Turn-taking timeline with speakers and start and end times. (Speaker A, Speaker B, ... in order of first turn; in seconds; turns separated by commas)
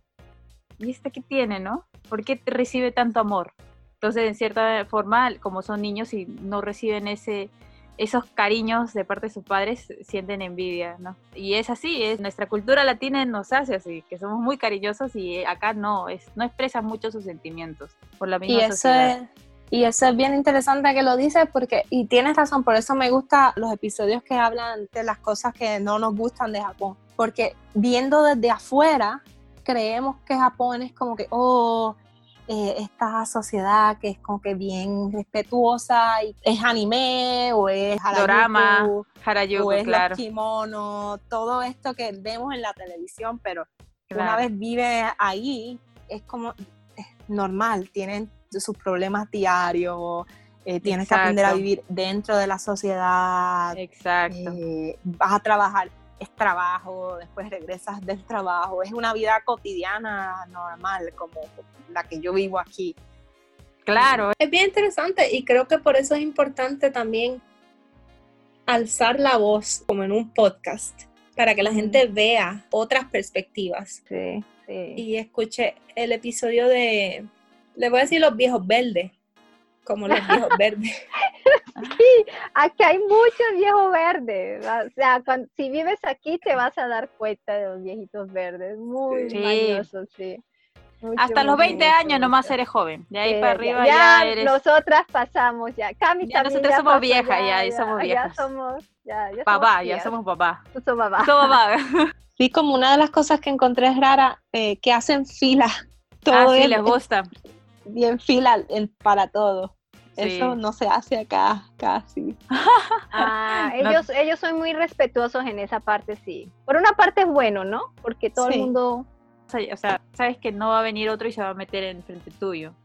Speaker A: 0.8-19.1, Speaker B: 18.5-32.0, Speaker B: 32.5-53.8, Speaker A: 38.1-40.2, Speaker A: 44.1-44.5, Speaker A: 50.8-51.6, Speaker A: 53.8-54.6, Speaker B: 54.3-63.0, Speaker A: 63.9-64.3, Speaker B: 64.0-67.4, Speaker B: 68.7-74.0, Speaker C: 71.6-72.0, Speaker C: 74.1-75.0, Speaker B: 75.0-79.1, Speaker B: 79.8-80.9, Speaker C: 80.1-80.4, Speaker C: 81.5-90.4, Speaker B: 89.1-89.4, Speaker A: 89.3-89.9, Speaker C: 91.0-92.5, Speaker A: 91.2-94.5, Speaker B: 91.6-91.9, Speaker C: 93.3-100.2, Speaker A: 96.2-98.5, Speaker A: 99.5-100.6, Speaker C: 100.7-101.6, Speaker A: 101.2-102.1, Speaker B: 102.4-105.7, Speaker B: 106.2-107.0, Speaker A: 106.3-107.3, Speaker B: 107.9-112.4, Speaker A: 110.2-110.6, Speaker A: 112.5-113.3, Speaker C: 113.1-119.1, Speaker B: 118.4-118.7, Speaker A: 119.5-122.8